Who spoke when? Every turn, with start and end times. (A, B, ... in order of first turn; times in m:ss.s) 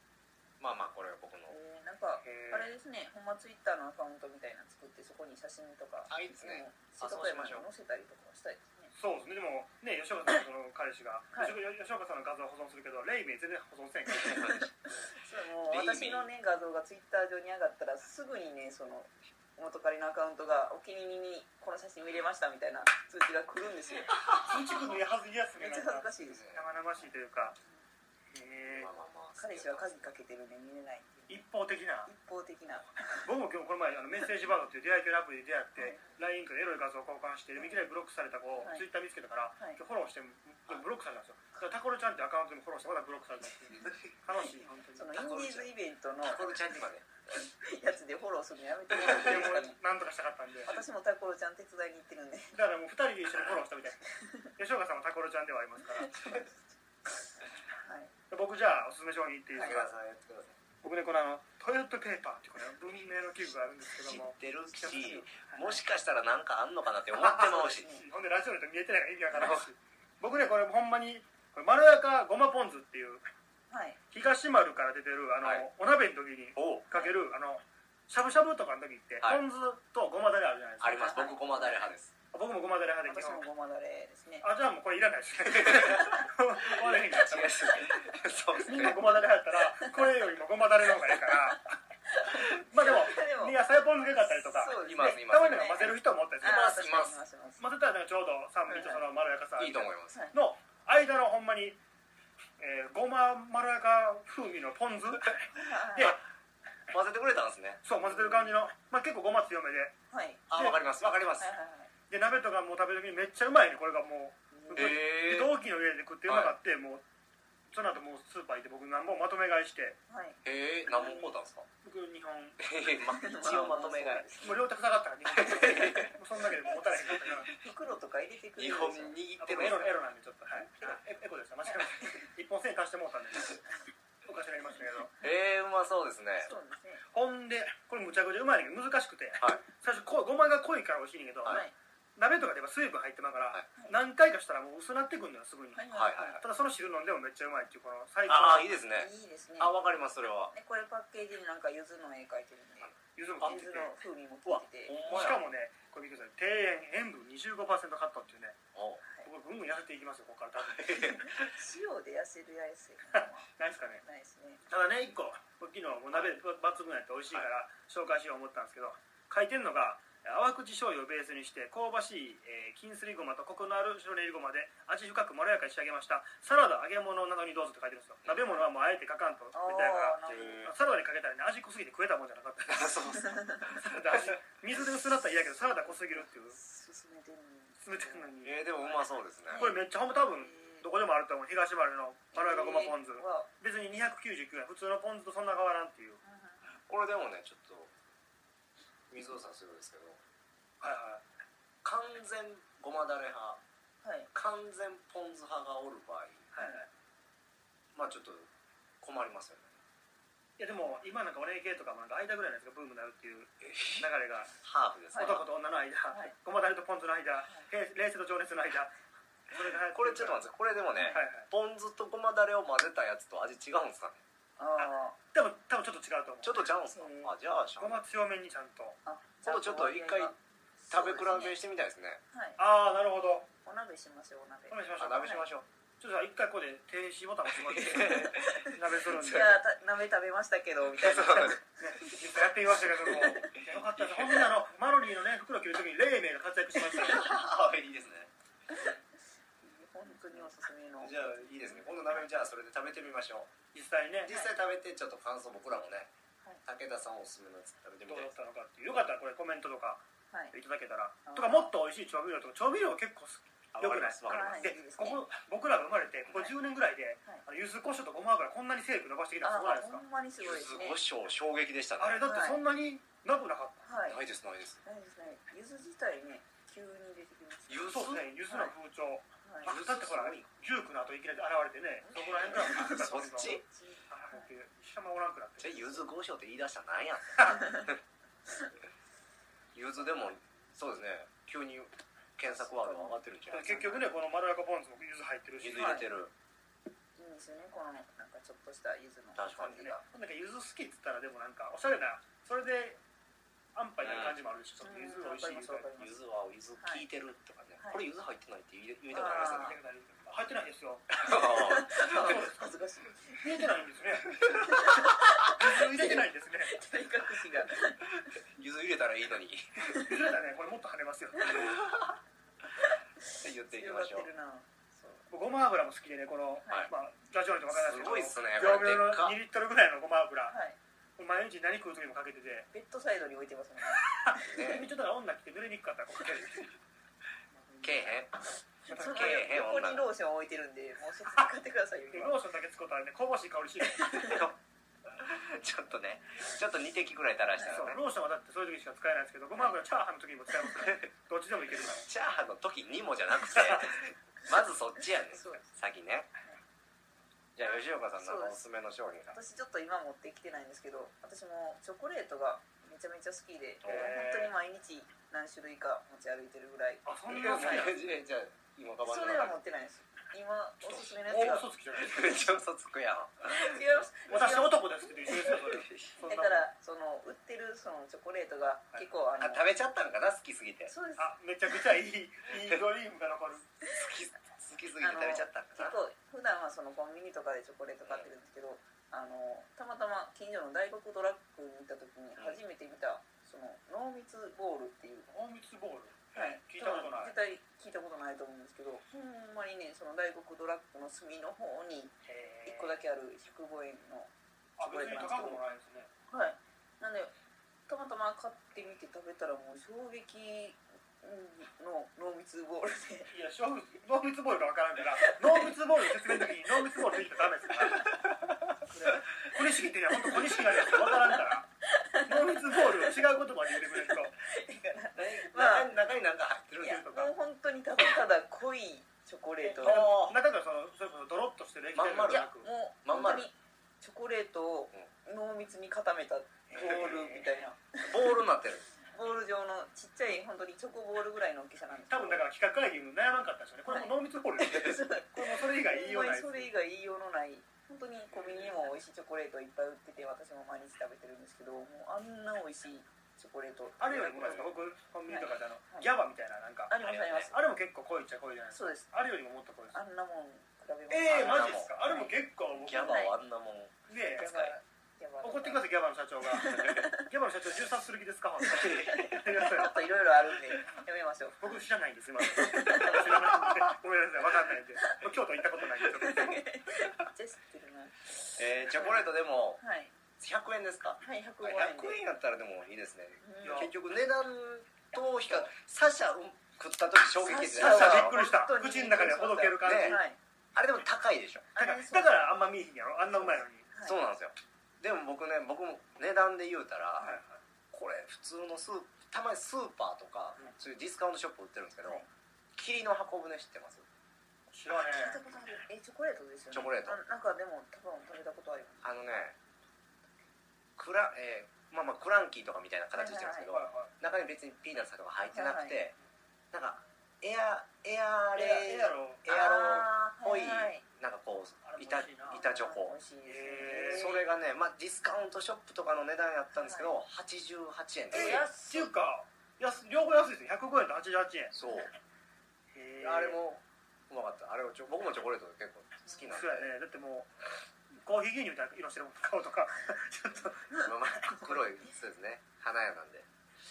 0:00.6-0:01.5 A
0:01.5-0:08.9 B
0:02.2-0:02.7 C
0:06.1-0:07.7 A
0:09.0-0:14.4 C
0:11.3-0:11.6 B
0:14.2-0:15.0 A
0:14.3-0:24.2 B
0:15.6-0:16.3 A
0:24.4-0:27.6 C
0:25.6-0:26.4 B
0:26.3-0:26.6 A
0:28.3-0:28.9 C
0:28.7-0:30.1 A
0:29.4-0:31.4 B
0:31.3-0:32.1 C
0:32.1-0:33.3 B
0:33.2-0:45.1 C
0:43.7-0:44.1 A
0:45.0-0:46.5 B
0:45.1-0:45.7 A
0:46.2-0:47.0 A
0:47.3-0:49.8 B
0:49.0-0:49.4 A
0:49.0-0:50.7 C
0:50.6-0:52.6 B
0:52.5-0:54.0 C
0:54.1-0:54.5 B
0:54.6-0:56.4 C
0:55.9-0:56.5 B
0:57.7-0:58.1 B
0:58.3-0:59.9 C
0:59.5-0:59.8 B
0:59.5-1:00.6 A
1:00.8-1:05.7 C
1:04.0-1:07.9 A
1:07.1-1:13.2 C
1:09.4-1:09.6 A
1:13.7-1:14.0 B
1:14.1-1:21.1 C
1:20.8-1:22.1 A
1:20.9-1:21.9 B
1:22.3-1:23.4 C
1:23.1-1:24.5 B
1:24.4-1:27.8 C
1:25.4-1:29.2 A
1:28.6-1:31.7 C
1:28.7-1:29.1 B
1:29.8-1:30.1 B
1:31.2-1:33.6 B
1:32.3-1:36.7 C
1:34.4-1:37.6 B
1:34.8-1:35.9 A
1:36.4-1:37.2 A
1:37.6-1:41.8 C
1:38.7-1:39.0 B
1:39.6-1:40.2 A
1:42.6-1:45.4 C
1:45.5-1:46.2 B
1:46.9-1:47.8 A
1:47.8-1:49.9 C
1:50.1-1:50.4 B
1:50.5-1:51.5 A
1:50.5-1:51.2 C
1:51.4-1:51.9 B
1:52.1-1:57.0 C
1:54.5-1:55.0 B
1:54.7-1:55.6 A
1:56.3-1:56.5 A
1:57.7-2:00.0 C
2:00.1-2:01.3 B
2:00.4-2:01.7 A
2:01.8-2:02.6 C
2:02.6-2:04.3 A
2:03.0-2:04.6 B
2:04.4-2:07.5 C
2:05.3-2:06.1 A
2:05.7-2:06.1 B
2:07.5-2:09.2 B
2:08.6-2:09.9 A
2:09.4-2:13.6 C
2:14.2-2:15.1 C
2:15.2-2:16.5 A
2:16.4-2:17.0 B
2:17.1-2:21.6 C
2:21.5-2:21.7 B
2:22.2-2:28.7 C
2:25.7-2:26.4 B
2:25.9-2:26.4 A
2:28.3-2:30.5 A
2:29.0-2:29.7 B
2:30.5-2:35.0 B
2:33.1-2:33.9 C
2:34.4-2:35.4 A
2:35.1-2:38.6 C
2:38.7-2:39.0 A
2:39.2-2:41.1 C
2:40.6-2:41.4 A
2:40.9-2:43.5 B
2:43.1-2:44.0 C
2:44.0-2:44.6 B
2:44.7-3:03.1 C
2:59.5-3:00.7 B
3:00.3-3:00.7 A
3:02.7-3:04.4 A
3:03.6-3:06.6 C
3:05.6-3:08.3 B
3:07.8-3:08.6 C
3:08.4-3:09.6 A
3:09.5-3:10.8 B
3:09.5-3:16.2 C
3:12.3-3:13.5 B
3:16.2-3:16.6 B
3:16.9-3:17.9 A
3:19.1-3:20.2 A
3:20.8-3:21.2 C
3:21.8-3:23.6 A
3:24.0-3:24.3 B
3:24.3-3:26.5 A
3:26.5-3:26.9 C
3:27.9-3:28.5 A
3:29.0-3:29.7 A
3:30.6-3:34.5 C
3:33.7-3:34.0 A
3:34.6-3:35.5 A
3:35.1-3:35.4 B
3:35.1-3:38.9 C
3:39.5-3:40.4 C
3:39.9-3:44.2 A
3:40.9-3:41.2 B
3:41.1-3:41.5 C
3:44.6-3:45.2 B
3:44.8-3:46.6 C
3:46.4-3:48.0 A
3:46.9-3:47.3 B
3:47.2-3:49.0 C
3:49.0-3:51.6 B
3:49.4-3:50.3 A
3:50.9-3:52.2 A
3:52.3-3:52.6 B
3:52.6-3:53.5 C
3:53.6-3:55.4 B
3:54.7-3:55.5 C
3:55.0-3:55.6 A
3:56.0-3:59.6 C
3:57.5-3:59.5 A
3:59.2-4:01.6 B
4:01.0-4:01.6 A
4:01.8-4:07.3 C
4:03.1-4:04.5 A
4:06.8-4:08.3 A
4:09.6-4:12.2 B
4:11.0-4:13.5 A
4:13.7-4:14.3 C
4:14.2-4:16.1 A
4:16.6-4:18.3 A
4:18.1-4:30.0 C
4:21.2-4:21.7 B
4:23.7-4:24.7 A
4:24.3-4:25.2 B
4:29.4-4:31.0 B
4:30.4-4:32.3 A
4:32.0-4:33.8 C
4:32.2-4:32.6 B
4:33.8-4:34.2 B
4:34.1-4:34.8 A
4:34.8-4:37.9 B
4:37.7-4:38.3 A
4:37.9-4:43.6 C
4:38.5-4:38.7 B
4:39.4-4:39.7 B
4:39.6-4:40.5 A
4:42.1-4:43.6 A
4:42.6-4:43.0 B
4:43.7-4:44.4 B
4:44.1-4:46.0 C
4:45.6-4:48.0 A
4:47.5-4:47.8 B
4:49.7-4:53.9 A
4:52.5-4:54.0 B
4:53.5-4:56.0 C
4:55.6-4:56.3 A
4:55.7-4:56.0 B
4:57.2-5:00.0 B
4:59.4-5:00.0 A
5:00.0-5:03.0 C
5:03.7-5:05.9 C
5:04.0-5:04.4 A
5:04.8-5:06.1 B
5:06.0-5:09.7 A
5:06.8-5:07.0 B
5:09.1-5:09.8 B
5:09.3-5:11.2 C
5:11.1-5:12.4 A
5:11.2-5:13.6 B
5:12.1-5:12.5 C
5:13.4-5:16.8 C
5:14.6-5:18.0 B
5:18.3-5:20.0 A
5:19.8-5:20.2 B
5:19.9-5:21.7 C
5:21.4-5:22.2 A
5:23.3-5:25.3 B
5:23.4-5:24.3 A
5:25.3-5:30.6 C
5:27.7-5:29.4 A
5:30.5-5:30.8 B
5:31.2-5:32.7 C
5:32.7-5:34.8 B
5:34.2-5:36.7 C
5:34.4-5:34.9 A
5:37.5-5:38.2 C
5:37.8-5:38.4 A
5:38.9-5:42.3 B
5:38.9-5:39.3 C
5:38.9-5:40.1 A
5:42.1-5:44.5 C
5:44.0-5:44.4 B
5:44.3-5:44.5 A
5:45.1-5:48.0 A
5:47.7-5:52.0 C
5:51.9-5:56.3 A
5:53.4-5:53.9 C
5:55.3-5:55.6 B
5:57.6-5:59.4 A
5:57.6-5:58.6 B
5:59.3-6:07.9 B
6:03.8-6:04.3 A
6:03.8-6:04.5 C
6:07.0-6:08.0 C
6:07.3-6:09.6 A
6:09.0-6:11.7 B
6:11.3-6:12.5 C
6:12.0-6:14.0 A
6:13.4-6:15.7 B
6:14.2-6:16.6 C
6:15.6-6:16.1 A
6:16.2-6:19.6 B
6:19.4-6:20.9 A
6:20.9-6:21.3 B
6:21.2-6:23.8 C
6:23.9-6:26.0 A
6:25.0-6:35.3 B
6:35.3-6:37.3 C
6:36.3-6:42.1 B
6:42.2-6:43.0 C
6:42.6-6:45.6 B
6:44.8-6:46.1 C
6:46.3-6:47.3 B
6:47.9-6:53.3 B
6:53.3-6:58.1 C
6:55.2-6:57.1 B
6:58.8-7:01.7 C
7:00.2-7:06.0 B
7:02.3-7:04.3 C
7:05.1-7:07.2 A
7:06.8-7:10.2 B
7:09.6-7:12.7 C
7:09.8-7:10.4 A
7:11.9-7:12.4 A
7:12.2-7:18.4 B
7:13.0-7:13.5 A
7:16.7-7:17.5 C
7:16.8-7:17.3 A
7:18.1-7:18.8 A
7:19.1-7:22.4 B
7:22.1-7:26.7 C
7:23.9-7:34.7 B
7:34.0-7:40.0 C
7:35.3-7:36.1 B
7:36.9-7:37.6 B
7:37.0-7:37.5 A
7:38.7-7:39.1 B
7:39.9-7:43.3 B
7:41.1-7:43.2 C
7:41.3-7:41.9 A
7:42.8-7:44.7 A
7:44.1-7:44.6 C
7:44.2-7:45.9 B
7:45.4-7:50.0 C
7:46.5-7:47.2 B
7:46.6-7:47.0 A
7:48.7-7:49.4 A
7:48.8-7:51.7 B
7:51.6-7:56.7 C
7:52.4-7:53.5 B
7:56.2-8:00.1 B
7:58.6-7:59.8 A
8:00.4-8:08.4 A
8:01.2-8:02.2 B
8:03.4-8:03.9 B
8:03.6-8:03.9 C
8:07.4-8:10.4 B
8:07.7-8:10.2 C
8:09.8-8:10.2 A
8:10.7-8:11.7 A
8:11.8-8:12.5 B
8:11.8-8:13.8 C
8:13.4-8:14.2 B
8:14.0-8:17.4 A
8:17.2-8:17.6 C
8:17.9-8:22.2 A
8:22.7-8:24.0 A
8:24.7-8:25.4 C
8:24.9-8:29.0 B
8:26.7-8:27.2 A
8:29.0-8:29.6 A
8:31.0-8:36.1 A
8:33.2-8:33.8 B
8:33.7-8:34.1 C
8:35.5-8:36.0 B
8:36.7-8:43.1 A
8:38.6-8:39.4 C
8:39.5-8:41.0 B
8:41.8-8:42.6 C
8:42.5-8:44.4 B
8:43.4-8:44.3 C
8:44.1-8:48.6 A
8:46.8-8:47.1 B
8:48.3-8:49.1 B
8:48.3-8:51.7 C
8:51.7-8:52.1 A
8:52.9-8:53.6 C
8:53.2-8:56.9 A
8:56.5-8:57.5 C
8:58.2-9:01.0 C
9:01.0-9:03.5 A